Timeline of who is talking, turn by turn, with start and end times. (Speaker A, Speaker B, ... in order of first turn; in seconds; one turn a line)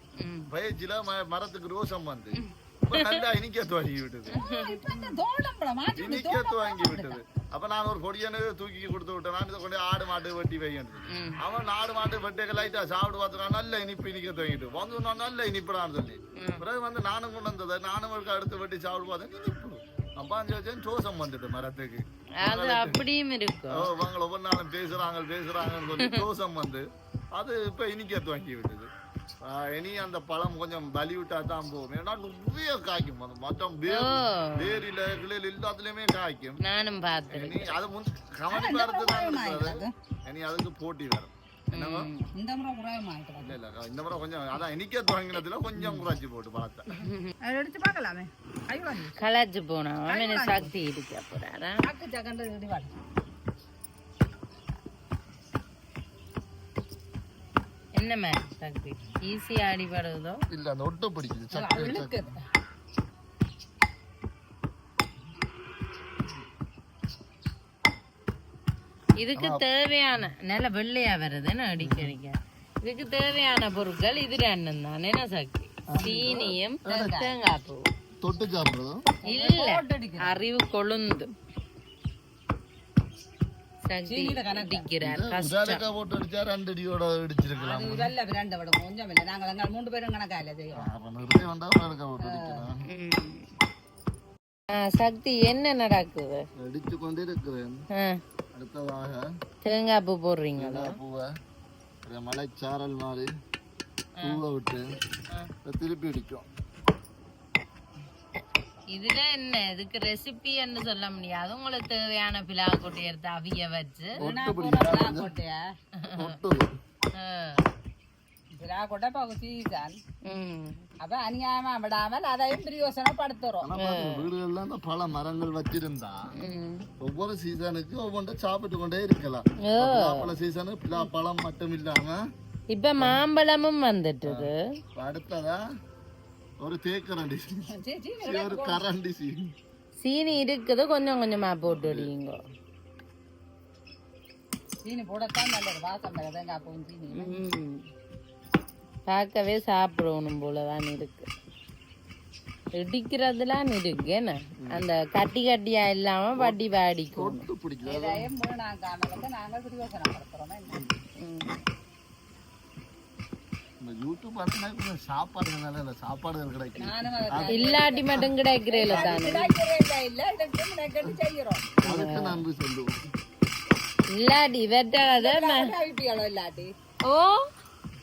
Speaker A: 0.2-0.5
Speaker B: 0.5-4.4
Speaker A: 2.4-3.2
Speaker A: 4.3-5.1
Speaker C: 4.5-7.1
Speaker B: 6.0-23.0
Speaker A: 11.1-11.4
Speaker A: 16.4-16.6
Speaker A: 22.4-23.9
Speaker B: 23.7-28.9
Speaker B: 29.4-36.6
Speaker A: 33.9-34.8
Speaker A: 36.6-37.8
Speaker B: 37.3-42.1
Speaker C: 38.5-39.9
Speaker A: 41.7-42.3
Speaker C: 42.4-43.6
Speaker B: 43.4-47.0
Speaker C: 45.8-46.0
Speaker A: 47.0-47.3
Speaker C: 47.5-49.2
Speaker A: 49.1-51.9
Speaker C: 50.1-50.7
Speaker C: 51.8-52.9
Speaker A: 58.0-60.4
Speaker B: 60.5-62.3
Speaker C: 61.5-62.4
Speaker A: 69.2-77.9
Speaker B: 69.4-69.6
Speaker B: 71.8-72.1
Speaker B: 75.9-77.2
Speaker C: 76.0-77.3
Speaker B: 78.2-79.0
Speaker C: 79.2-80.4
Speaker A: 79.2-81.3
Speaker A: 83.9-85.8
Speaker C: 84.1-84.9
Speaker B: 85.0-88.1
Speaker C: 87.6-90.9
Speaker B: 90.7-92.8
Speaker C: 92.2-92.7
Speaker A: 92.9-93.5
Speaker A: 94.7-96.4
Speaker B: 96.6-97.8
Speaker B: 98.5-99.2
Speaker A: 99.6-101.0
Speaker B: 100.6-101.3
Speaker B: 102.0-103.3
Speaker A: 104.2-104.4
Speaker B: 104.2-104.9
Speaker B: 105.7-106.5
Speaker A: 108.9-114.2
Speaker B: 114.2-115.3
Speaker C: 114.2-115.6
Speaker A: 116.0-116.4
Speaker B: 116.2-116.7
Speaker A: 117.2-117.7
Speaker C: 118.6-120.0
Speaker A: 120.3-120.8
Speaker C: 121.0-123.7
Speaker B: 123.6-126.2
Speaker A: 123.8-124.3
Speaker A: 126.4-126.9
Speaker B: 127.0-132.2
Speaker A: 129.7-130.3
Speaker A: 132.7-134.6
Speaker B: 133.0-133.2
Speaker B: 134.2-135.6
Speaker B: 136.6-137.6
Speaker C: 137.7-138.9
Speaker B: 138.2-139.5
Speaker A: 140.0-142.4
Speaker B: 141.7-142.1
Speaker C: 144.8-147.4
Speaker A: 147.1-147.8
Speaker A: 149.1-151.3
Speaker A: 152.8-157.5
Speaker B: 154.6-154.9
Speaker B: 157.2-158.3
Speaker C: 157.8-160.8
Speaker A: 161.2-161.6
Speaker B: 163.8-167.6
Speaker C: 166.8-171.8
Speaker A: 167.5-169.5
Speaker B: 168.9-169.3
Speaker B: 171.8-172.9
Speaker A: 171.8-172.4
Speaker A: 174.2-175.7
Speaker C: 175.1-176.7
Speaker A: 177.1-177.5